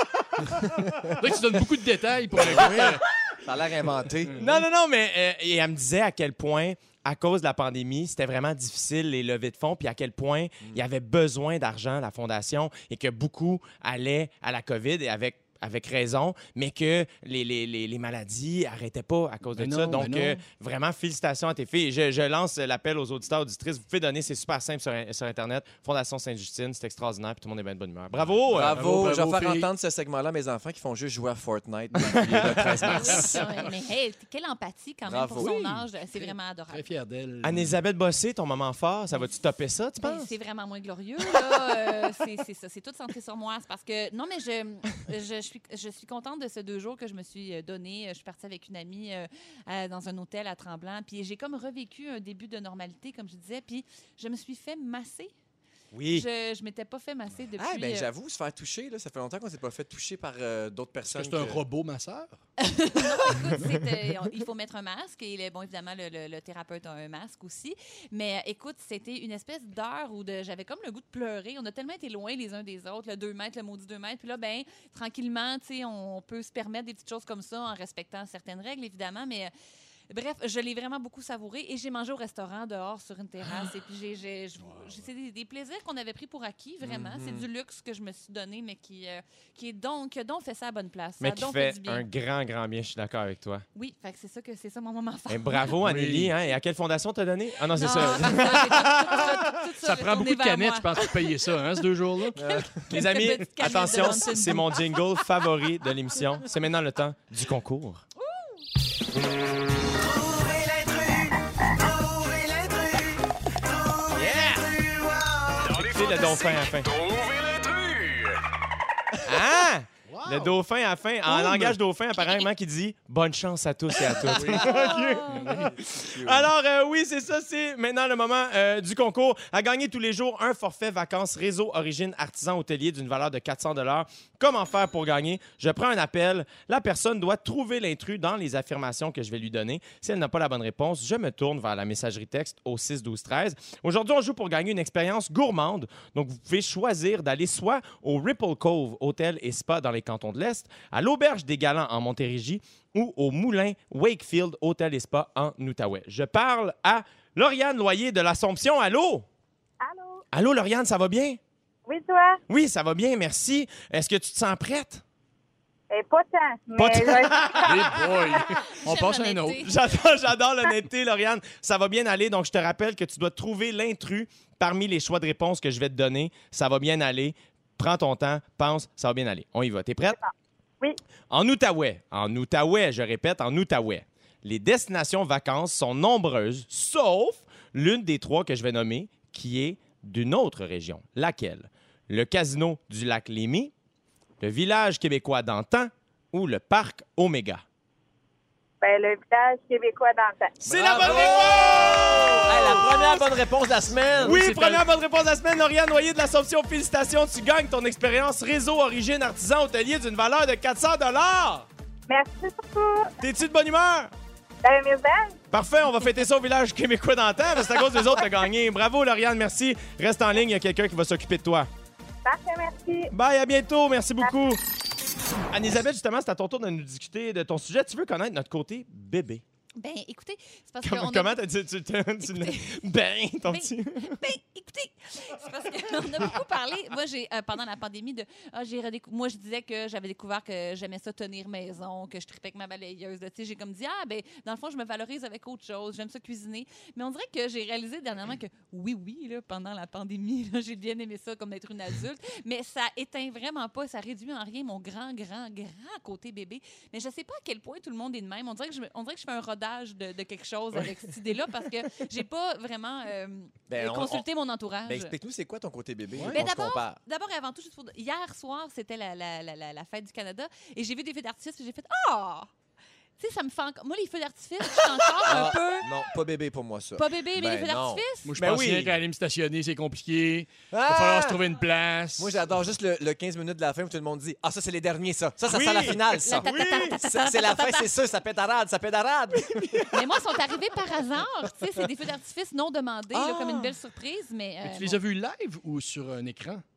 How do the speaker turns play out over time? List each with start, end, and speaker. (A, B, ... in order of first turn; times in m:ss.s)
0:00.4-0:03.0 A
0:00.5-0:00.9 B
0:02.4-0:04.3 C
0:02.5-0:02.9 B
0:04.2-0:04.6 A
0:04.4-0:28.8 B
0:19.5-0:20.4 A
0:28.5-0:29.7 A
0:28.5-0:33.6 C
0:32.0-0:33.0 B
0:32.3-0:33.4 A
0:32.8-0:36.8 D
0:35.0-0:35.5 C
0:35.4-0:37.8 A
0:37.4-0:40.3 B
0:40.0-0:55.3 D
0:55.9-0:56.2 B
0:56.1-0:58.1 D
0:57.6-1:01.6 C
1:01.0-1:02.3 A
1:02.6-1:19.5 D
1:03.4-1:03.7 A
1:20.1-1:32.0 D
1:24.6-1:25.0 A
1:26.8-1:27.4 C
1:31.2-1:33.6 B
1:33.7-1:35.7 D
1:35.3-1:39.4 B
1:35.8-1:36.3 A
1:37.8-1:41.4 D
1:39.8-1:42.4 A
1:42.3-1:42.8 C
1:42.4-1:45.2 D
1:42.9-1:48.0 B
1:48.2-1:48.6 D
1:49.9-1:55.8 C
1:54.1-1:54.7 B
1:55.6-1:58.4 E
1:55.7-1:56.9 B
1:59.2-2:39.2 B
2:00.1-2:00.6 A
2:01.3-2:01.8 A
2:04.2-2:05.8 A
2:04.7-2:05.3 D
2:06.0-2:06.5 C
2:39.8-2:40.2 F
2:40.3-2:41.4 B
2:41.8-2:42.4 F
2:42.5-2:45.0 B
2:45.9-2:48.1 F
2:46.8-2:48.0 B
2:47.6-2:49.6 A
2:48.6-2:49.7 D
2:49.6-3:00.2 B
3:01.3-3:13.7 B
3:14.4-3:17.6 B
3:18.8-3:20.6 F
3:20.6-3:23.3 B
3:20.6-3:24.4 C
3:21.0-3:21.4 A
3:24.1-3:24.8 A
3:24.2-3:31.7 B
3:32.1-3:33.1 F
3:33.2-3:34.1 B
3:34.6-3:35.4 F
3:35.5-3:41.7 B
3:42.2-3:43.1 F
3:43.1-3:44.6 B
3:45.5-3:49.4 B
3:49.8-3:51.4 D
3:50.8-3:54.2 B
3:52.2-3:52.8 D
3:53.4-4:25.1 D
4:23.7-4:24.0 B
4:23.8-4:24.2 C
4:24.9-4:27.0 C
4:26.1-4:26.4 A
4:26.3-4:32.5 D
4:33.2-4:35.9 D
4:35.2-4:38.0 C
4:37.0-4:38.3 D
4:38.2-4:42.5 A
4:38.4-4:39.0 B
4:40.7-4:41.4 C
4:42.2-4:49.9 C
4:45.4-4:47.0 B
4:46.2-4:47.9 D
4:49.9-4:55.0 D
4:53.1-4:53.7 B
4:54.6-4:56.6 A